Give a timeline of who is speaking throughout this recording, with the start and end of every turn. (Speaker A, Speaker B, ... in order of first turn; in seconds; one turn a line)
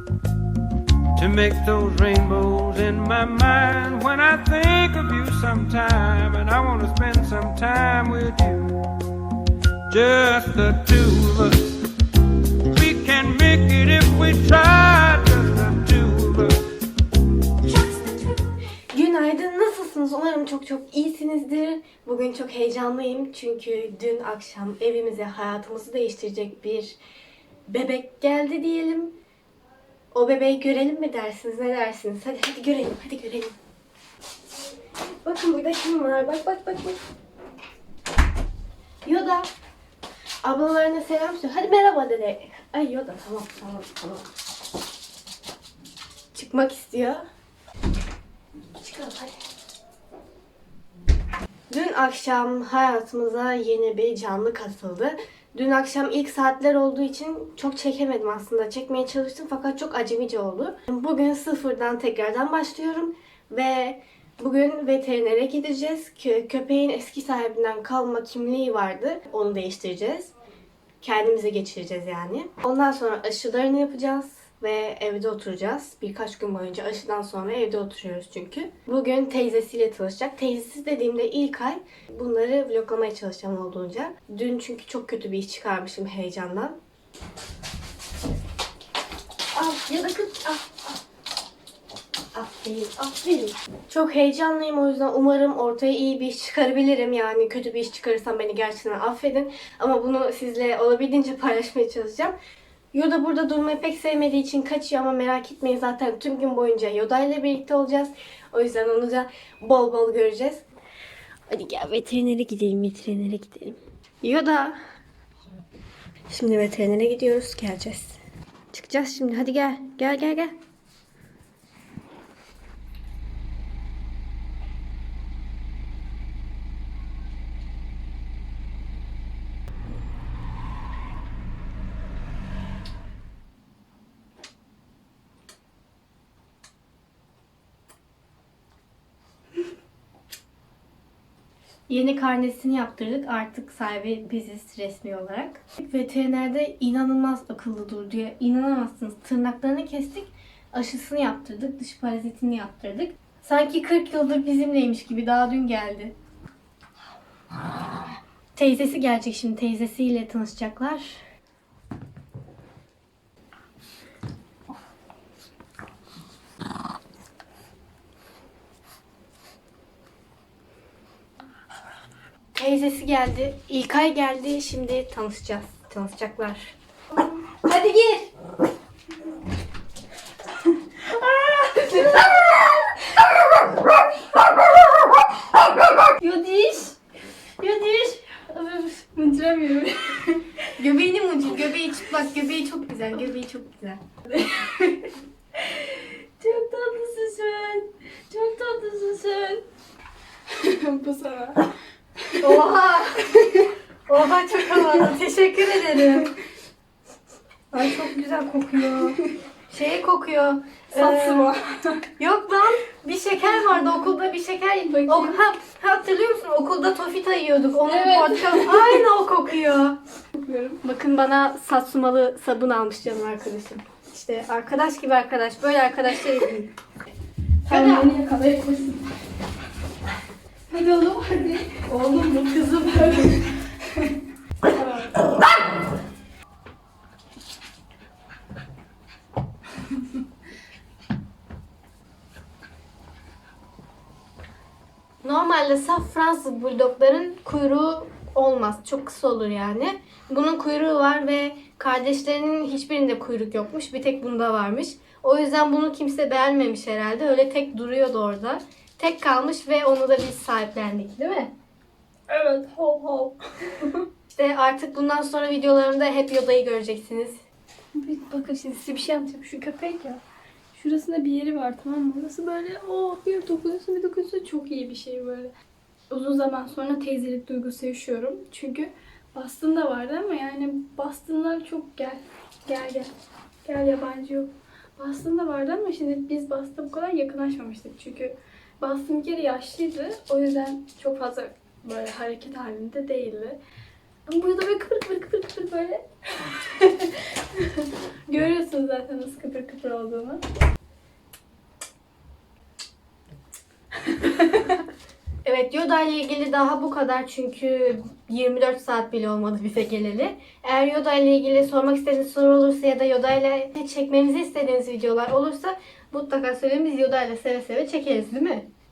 Speaker A: 1.1-8.7
Speaker A: 9.9-11.8
Speaker A: 12.7-16.6
Speaker B: 18.9-27.0
Speaker B: 27.7-29.1
Speaker B: 30.1-33.6
Speaker B: 35.2-37.0
Speaker B: 39.0-39.5
Speaker B: 40.4-44.2
Speaker B: 46.3-47.2
Speaker B: 48.8-49.3
Speaker B: 51.7-70.3
Speaker B: 71.0-86.8
Speaker B: 89.5-90.9
Speaker B: 92.3-102.3
Speaker B: 102.9-110.6
Speaker B: 111.5-114.8
Speaker B: 116.3-118.2
Speaker B: 118.7-120.5
Speaker B: 141.9-156.1
Speaker B: 158.5-161.2
Speaker B: 172.5-176.7
Speaker C: 177.1-178.3
Speaker C: 180.9-182.9
Speaker C: 186.0-187.0
Speaker C: 187.6-190.7
Speaker B: 190.8-194.0
Speaker C: 194.3-199.6
Speaker C: 200.5-201.7
Speaker C: 202.3-202.6
Speaker B: 202.4-203.4
Speaker C: 203.3-203.7
Speaker B: 204.1-206.3
Speaker B: 207.7-211.5
Speaker C: 208.9-209.3
Speaker C: 210.9-212.0
Speaker B: 212.2-220.0
Speaker C: 213.6-214.0
Speaker C: 214.9-215.4
Speaker C: 217.8-219.0
Speaker C: 220.4-220.8
Speaker B: 220.8-226.7
Speaker C: 227.6-229.1
Speaker B: 227.7-228.1
Speaker C: 230.7-234.1
Speaker C: 234.6-235.3
Speaker B: 245.2-261.5
Speaker C: 262.3-264.0
Speaker B: 264.3-267.4
Speaker C: 267.9-270.2
Speaker C: 270.7-275.5
Speaker C: 276.1-283.1
Speaker C: 283.6-293.6
Speaker C: 294.2-300.4
Speaker C: 304.1-304.8
Speaker B: 305.4-318.7